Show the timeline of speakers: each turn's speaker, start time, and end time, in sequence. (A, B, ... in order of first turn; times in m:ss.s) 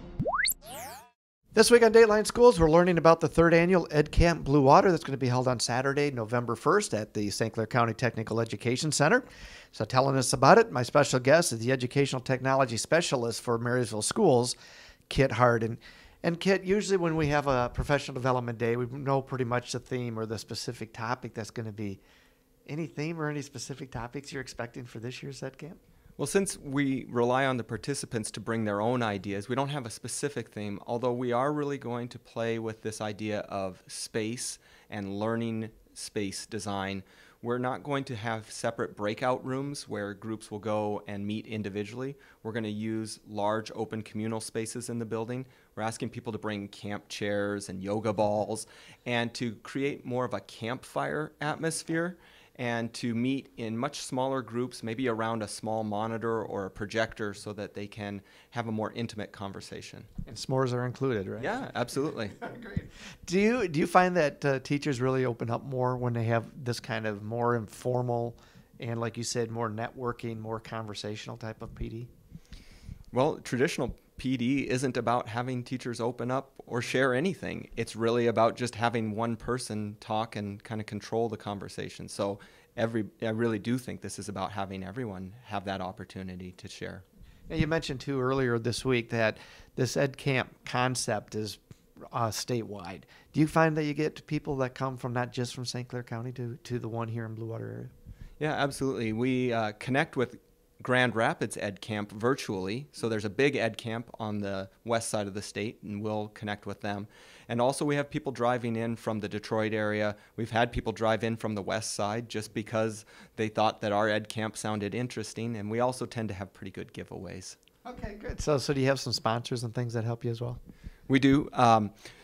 0:01.5-0:14.6 A
0:15.1-0:22.0 A
0:22.7-0:25.8 A
0:26.2-1:00.1 B
1:00.3-1:12.1 A
1:01.4-1:02.4 B
1:13.1-1:27.0 B
1:27.5-1:31.6 A
1:32.1-1:37.9 A
1:38.4-1:57.6 B
1:57.8-2:00.6 A
2:01.1-2:01.9 B